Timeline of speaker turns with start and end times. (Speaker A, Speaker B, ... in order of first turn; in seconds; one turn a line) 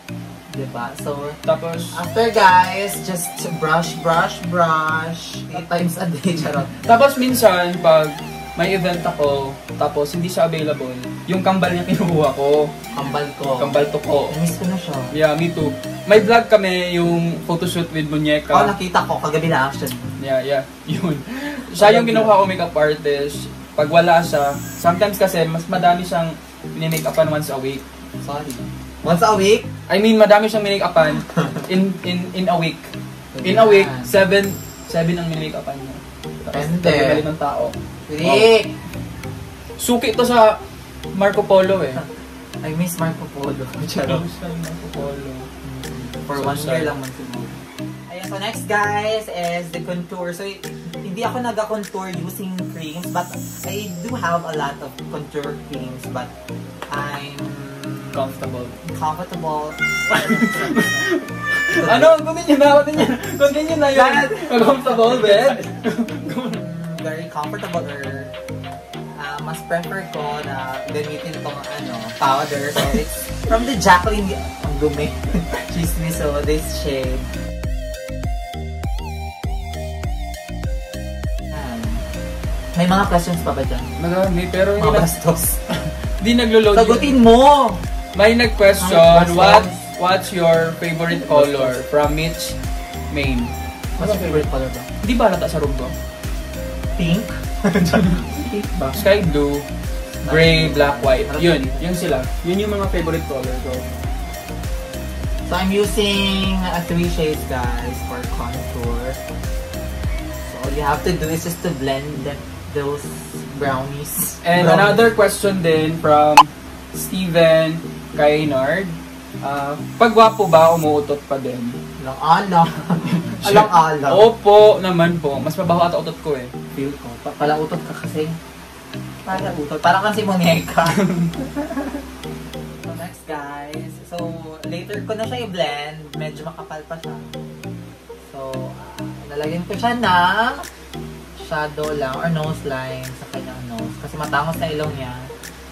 Speaker A: 0.5-1.4
Speaker B: 1.4-2.0
Speaker A: 1.9-6.7
Speaker B: 6.8-12.7
Speaker A: 12.9-15.1
Speaker B: 13.6-14.4
Speaker B: 15.1-18.7
Speaker A: 18.5-20.1
Speaker B: 20.2-27.8
Speaker A: 21.8-22.4
Speaker A: 28.2-29.7
Speaker B: 29.9-32.9
Speaker A: 31.3-31.6
Speaker A: 33.3-34.1
Speaker B: 33.4-38.6
Speaker A: 36.5-37.3
Speaker A: 38.1-38.7
Speaker B: 39.8-40.6
Speaker B: 41.1-42.0
Speaker A: 42.6-44.2
Speaker B: 44.0-45.5
Speaker A: 45.6-56.3
Speaker B: 46.3-46.9
Speaker A: 56.9-58.2
Speaker B: 58.1-58.8
Speaker A: 58.9-61.0
Speaker B: 60.1-66.7
Speaker A: 61.7-62.1
Speaker A: 63.9-65.7
Speaker A: 66.5-68.3
Speaker A: 69.1-77.3
Speaker A: 81.5-82.0
Speaker A: 82.8-83.9
Speaker B: 84.0-85.1
Speaker A: 84.8-85.7
Speaker B: 85.7-87.1
Speaker A: 86.7-87.8
Speaker B: 88.1-92.6
Speaker A: 88.8-89.9
Speaker A: 91.2-91.8
Speaker B: 93.1-94.5
Speaker A: 94.0-94.9
Speaker B: 95.0-95.9
Speaker A: 97.0-99.1
Speaker B: 98.9-99.7
Speaker A: 100.2-102.0
Speaker B: 100.3-103.9
Speaker A: 105.5-109.2
Speaker A: 110.4-115.1
Speaker B: 114.4-121.8
Speaker A: 122.0-124.3
Speaker B: 123.2-126.5
Speaker A: 126.7-128.4
Speaker A: 129.2-131.7
Speaker B: 131.0-131.3
Speaker A: 132.9-137.3
Speaker A: 138.3-140.7
Speaker A: 141.4-145.3